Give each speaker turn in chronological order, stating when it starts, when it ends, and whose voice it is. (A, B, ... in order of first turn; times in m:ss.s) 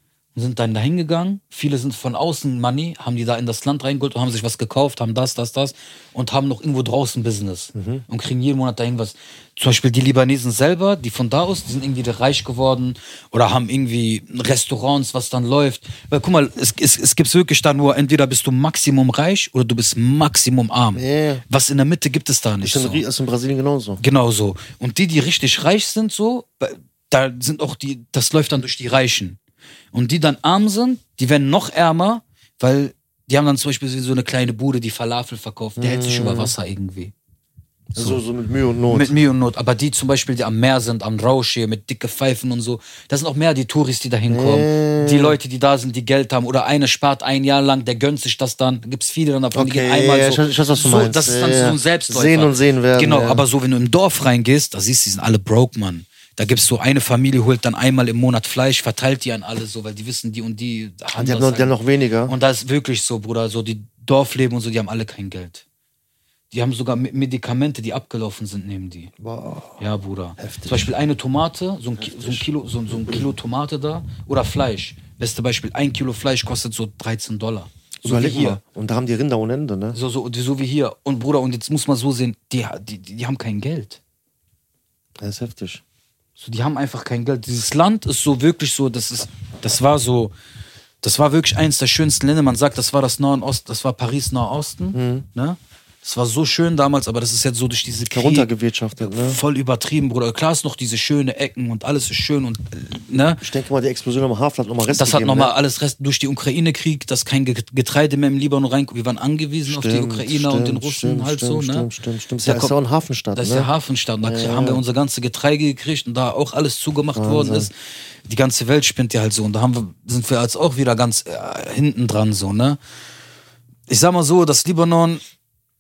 0:00.3-0:23.0 A
0:07.8-0:08.0 B
0:21.0-0:21.4 B
0:22.6-0:24.0 B
0:24.0-0:29.4 A
0:29.9-0:37.1 A
0:35.8-0:36.5 B
0:37.9-0:39.2 B
0:38.9-1:01.8 A
0:44.3-0:45.4 B
0:49.5-0:53.4 B
1:01.1-1:02.3 B
1:02.3-1:05.6 A
1:06.5-1:09.1 A
1:09.2-1:09.8 B
1:09.8-1:18.6 A
1:10.4-1:10.9 B
1:12.0-1:13.3 B
1:18.0-1:20.0 B
1:19.9-1:24.0 A
1:25.2-1:25.8 B
1:26.4-1:30.3 A
1:31.0-1:38.5 A
1:34.9-1:35.3 B
1:38.1-1:39.4 B
1:39.0-1:43.4 A
1:43.4-1:45.5 B
1:44.9-1:51.9 A
1:49.7-1:53.7 B
1:52.4-1:52.7 A
1:53.4-1:57.7 A
1:54.2-1:54.8 B
1:57.2-1:57.7 B
1:58.3-2:02.8 A
2:03.9-2:05.2 A